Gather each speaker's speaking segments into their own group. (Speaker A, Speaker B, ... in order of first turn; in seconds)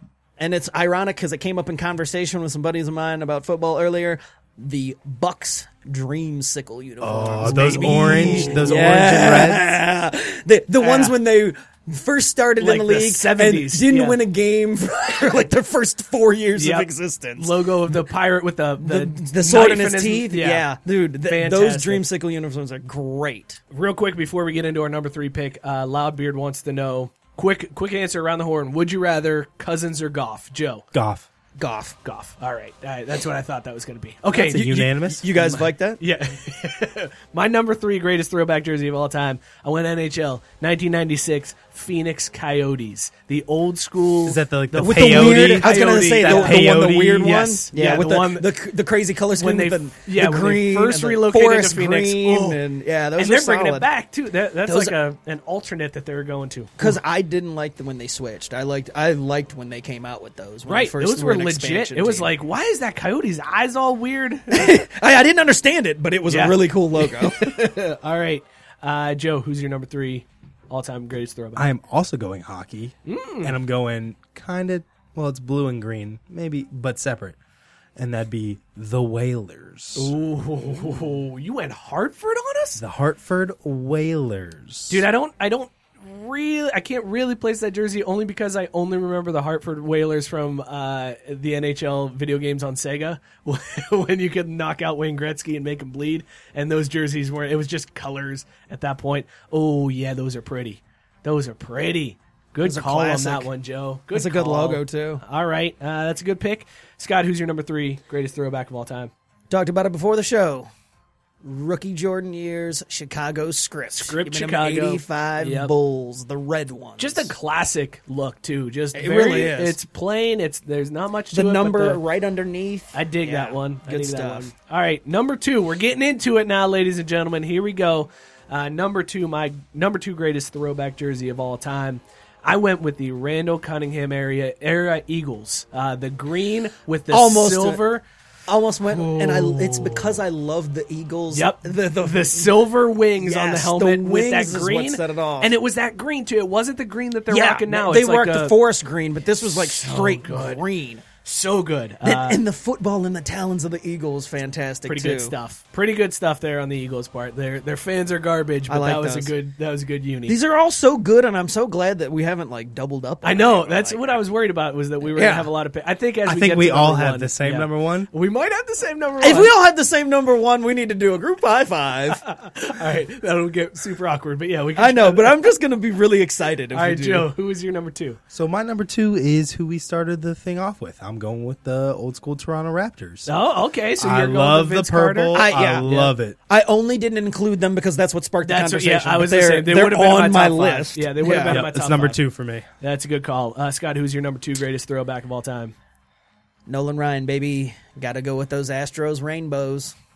Speaker A: 0.4-17.9, 18.8-23.6, 31.6-32.0, 34.3-36.0, 44.8-53.9, 54.6-55.0, 56.8-62.3, 64.5-67.5, 102.6-103.5, 104.1-105.2, 109.5-110.7, 111.4-117.3, 118.9-119.8, 121.3-124.5, 137.1-137.9, 138.5-145.5, 147.3-151.0, 152.0-155.3, 158.7-159.3, 160.2-164.2, 165.1-165.5, 169.2-172.2, 174.7-177.3, 185.3-185.8, 186.5-191.6, 196.7-199.9
Speaker B: 7.0-9.7, 30.9-31.3, 34.5-35.3, 44.2-47.4, 71.5-77.4, 78.0-80.1, 82.8-85.0, 166.2-168.1, 178.3-183.3, 184.0-186.4, 191.3-192.6
Speaker C: 7.4-8.9, 10.8-11.2, 12.6-14.2, 16.6-20.7, 21.2-22.0, 23.7-30.8, 32.0-34.8, 35.4-48.5, 49.4-52.6, 53.2-56.9, 60.6-64.8, 66.3-71.7, 73.0-73.5, 79.9-82.8, 84.9-109.1, 113.9-115.7, 117.0-122.0, 122.9-138.0, 138.9-140.2, 141.3-148.6, 149.4-150.6, 151.2-152.4, 154.8-160.4, 163.2-169.5, 172.2-175.4, 176.7-178.2, 183.2-186.1, 188.4-192.2, 192.8-195.7